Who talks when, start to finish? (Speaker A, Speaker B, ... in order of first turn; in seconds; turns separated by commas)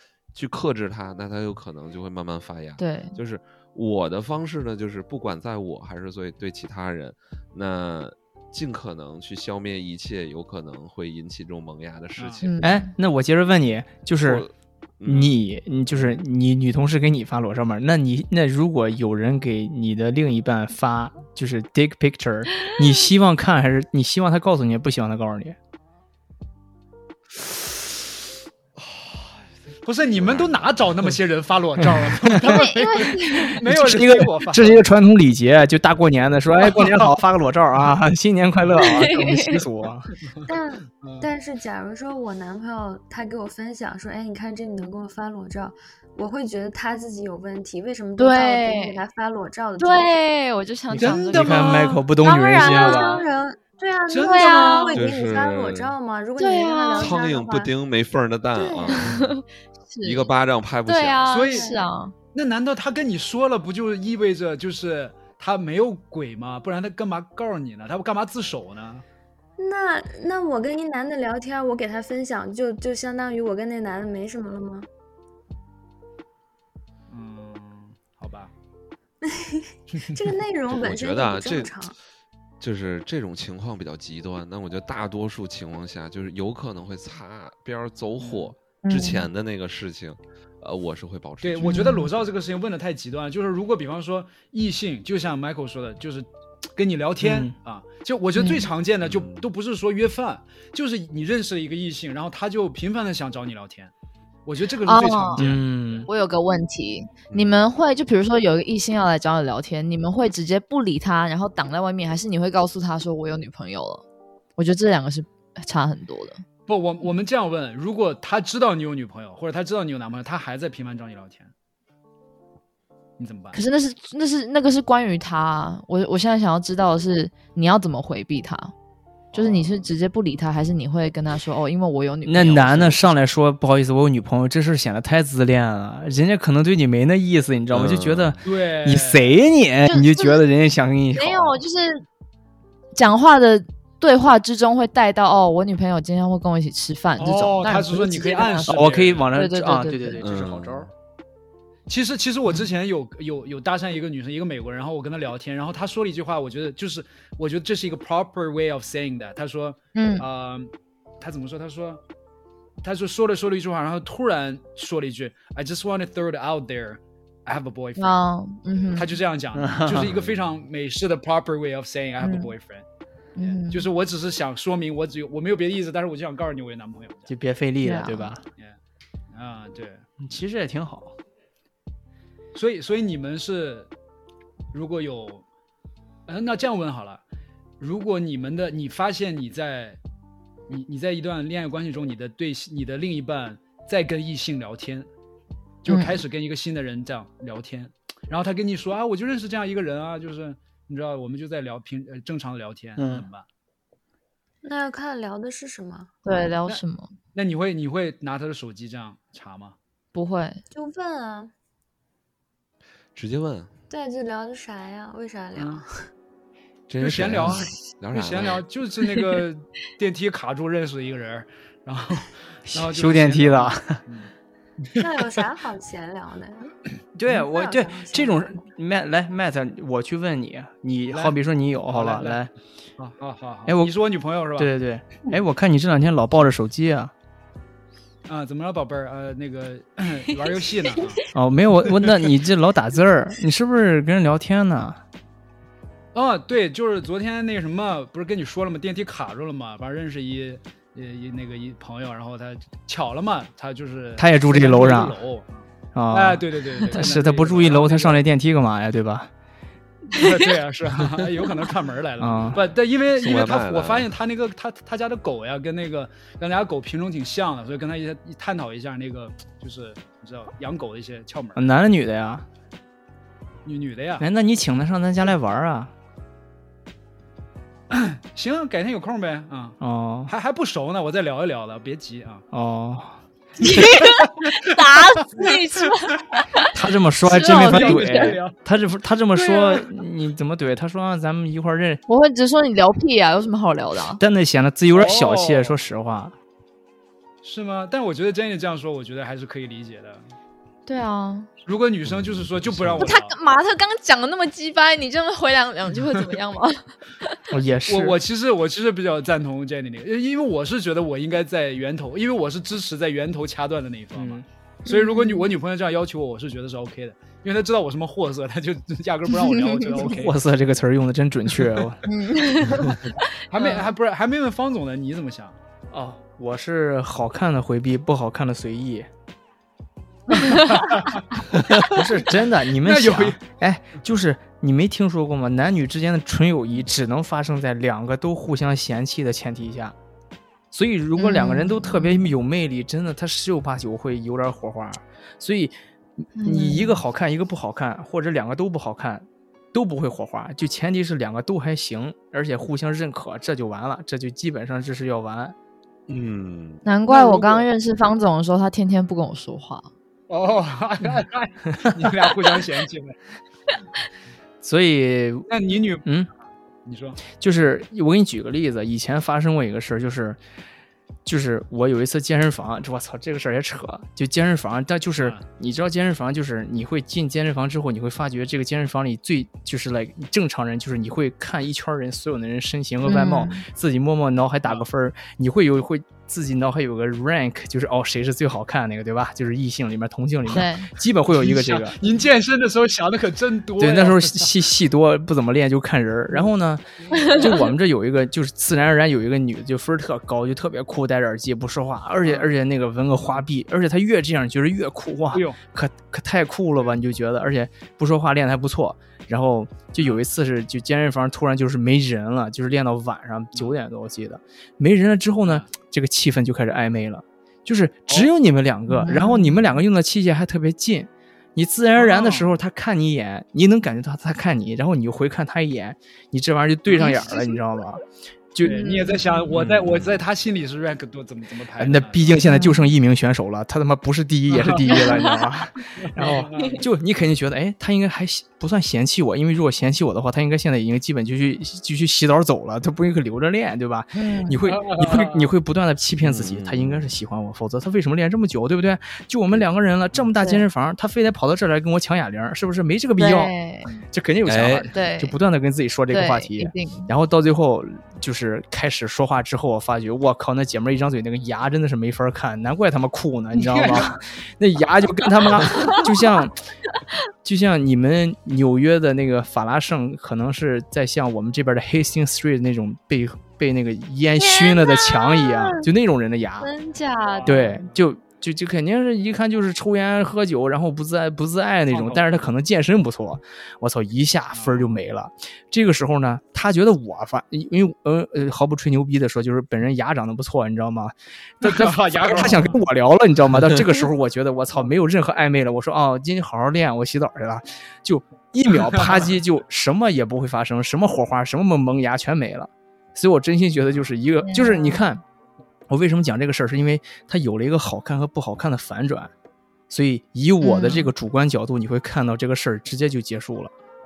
Speaker A: 0.3-12.5, Speaker B: 2.8-3.2, Speaker C: 12.2-12.4, Speaker B: 12.4-12.9, Speaker D: 12.6-14.5, Speaker A: 14.2-16.2, Speaker D: 15.1-25.6, Speaker A: 28.8-29.4, Speaker C: 29.9-34.8, Speaker A: 30.1-31.2, Speaker B: 32.4-33.6, Speaker D: 33.6-40.1, Speaker B: 38.8-39.6, Speaker E: 40.5-50.2, Speaker C: 41.0-41.3, Speaker B: 48.2-49.0, Speaker B: 49.8-53.3, Speaker D: 50.9-53.2, Speaker C: 51.0-51.9, Speaker E: 52.5-57.7, Speaker C: 54.1-54.9, Speaker B: 54.2-55.0, Speaker A: 54.9-56.0, Speaker B: 56.4-57.2, Speaker A: 56.9-59.3, Speaker E: 58.5-59.1, Speaker B: 58.9-60.3, Speaker A: 60.0-61.4, Speaker B: 60.9-62.1, Speaker C: 61.2-61.8, Speaker E: 61.4-61.8, Speaker C: 62.3-69.0, Speaker E: 69.6-74.9, Speaker C: 77.1-78.5, Speaker E: 79.2-82.0, Speaker A: 80.7-81.8, Speaker A: 82.6-92.1, Speaker C: 88.2-88.5, Speaker B: 88.8-89.3, Speaker C: 91.4-103.9, Speaker B: 91.6-92.1, Speaker D: 97.2-97.5, Speaker B: 98.3-98.7, Speaker A: 99.0-99.5, Speaker C: 104.5-106.0, Speaker B: 104.8-105.5, Speaker D: 105.4-106.1, Speaker B: 106.1-114.0, Speaker A: 107.3-107.7, Speaker B: 114.6-116.4, Speaker C: 116.7-121.5, Speaker C: 123.2-123.6, Speaker B: 123.5-128.7, Speaker C: 129.3-129.8, Speaker B: 129.3-133.1, Speaker D: 132.2-141.6, Speaker A: 137.7-138.4, Speaker C: 138.4-139.4, Speaker B: 139.9-140.4, Speaker B: 141.1-142.0, Speaker B: 142.9-148.8, Speaker C: 147.2-149.3, Speaker D: 148.7-150.9, Speaker B: 149.3-150.2, Speaker A: 150.2-150.9, Speaker C: 151.9-162.0, Speaker B: 159.9-160.3, Speaker C: 162.8-168.3, Speaker B: 168.0-169.2, Speaker C: 168.9-172.8, Speaker D: 169.5-170.1, Speaker A: 170.1-170.4, Speaker B: 172.2-172.5, Speaker B: 173.4-173.9, Speaker C: 173.4-177.3, Speaker D: 177.3-178.4, Speaker B: 177.8-178.3, Speaker C: 179.3-180.0, Speaker D: 180.2-181.2, Speaker C: 182.5-183.9, Speaker C: 184.7-185.4, Speaker C: 186.3-187.2, Speaker C: 187.8-190.0, Speaker C: 190.7-195.1, Speaker C: 195.8-203.5, Speaker B: 195.9-196.2, Speaker D: 203.0-203.3, Speaker E: 204.6-206.1, Speaker B: 206.2-207.1, Speaker C: 207.3-209.8, Speaker B: 210.1-210.6, Speaker E: 210.7-211.5, Speaker A: 213.2-213.7, Speaker E: 213.9-215.8, Speaker C: 215.6-215.8, Speaker A: 216.9-218.6, Speaker C: 217.0-224.3, Speaker D: 222.7-224.0, Speaker E: 225.0-226.7, Speaker D: 227.2-232.5, Speaker E: 227.5-228.6, Speaker C: 231.1-234.7, Speaker D: 233.7-233.9, Speaker D: 234.6-237.1, Speaker C: 238.3-241.2, Speaker D: 241.3-245.0, Speaker C: 246.1-258.2, Speaker D: 254.2-255.2, Speaker D: 255.9-259.3, Speaker C: 260.1-271.7, Speaker D: 262.2-262.6, Speaker A: 263.1-264.1, Speaker D: 271.6-272.4, Speaker C: 273.6-274.3, Speaker D: 274.2-275.9, Speaker C: 277.9-282.4, Speaker D: 279.8-280.3, Speaker D: 282.5-283.2, Speaker B: 283.6-286.6, Speaker D: 286.7-292.0, Speaker B: 287.3-288.4, Speaker C: 287.3-288.6, Speaker C: 289.3-289.8, Speaker B: 292.1-294.2, Speaker D: 294.1-296.4, Speaker C: 294.9-295.8, Speaker C: 297.4-300.2, Speaker B: 300.9-301.5, Speaker C: 301.6-303.3, Speaker A: 302.1-303.1, Speaker B: 303.0-307.4, Speaker D: 307.5-308.2, Speaker C: 307.9-320.4, Speaker D: 314.1-314.4, Speaker B: 314.9-315.5, Speaker D: 320.1-322.0, Speaker B: 322.1-323.8, Speaker C: 323.5-325.6, Speaker D: 325.9-329.1, Speaker C: 330.3-331.3, Speaker D: 331.8-340.0, Speaker C: 332.8-333.4, Speaker D: 340.7-355.6, Speaker B: 341.2-342.3, Speaker B: 346.4-347.0, Speaker A: 356.1-356.9, Speaker B: 356.9-359.9, Speaker C: 357.1-357.7, Speaker C: 360.3-363.1, Speaker D: 364.6-365.5, Speaker C: 365.5-366.1, Speaker D: 366.1-366.3, Speaker C: 366.9-367.2, Speaker D: 367.4-370.4, Speaker D: 371.2-392.0, Speaker C: 375.2-375.4, Speaker B: 383.0-383.7, Speaker B: 390.5-390.9, Speaker C: 391.3-394.6, Speaker D: 393.8-428.0, Speaker C: 402.2-402.5, Speaker C: 405.3-405.6, Speaker C: 415.4-415.7, Speaker B: 418.9-419.6, Speaker C: 421.9-422.6, Speaker B: 427.0-427.5, Speaker D: 428.5-428.8, Speaker C: 428.6-432.6, Speaker B: 428.7-429.4, Speaker A: 429.5-430.2, Speaker D: 431.8-453.5, Speaker B: 432.4-432.9, Speaker C: 434.5-435.1, Speaker B: 434.9-435.4, Speaker C: 436.0-436.8, Speaker B: 436.5-436.8, Speaker B: 444.1-444.6, Speaker C: 444.7-445.5, Speaker A: 446.2-447.2, Speaker B: 450.4-450.7, Speaker B: 453.2-453.9, Speaker D: 454.1-466.6, Speaker A: 454.4-454.9, Speaker B: 454.9-455.4, Speaker B: 456.1-457.1, Speaker C: 463.5-464.1, Speaker D: 467.4-476.7, Speaker B: 474.4-475.9, Speaker B: 476.6-477.9, Speaker C: 477.3-477.8, Speaker D: 477.5-505.2, Speaker C: 481.9-482.4, Speaker C: 484.5-485.0, Speaker C: 491.6-492.8, Speaker B: 504.4-505.0, Speaker D: 505.9-509.3, Speaker D: 509.9-513.7, Speaker B: 510.6-511.1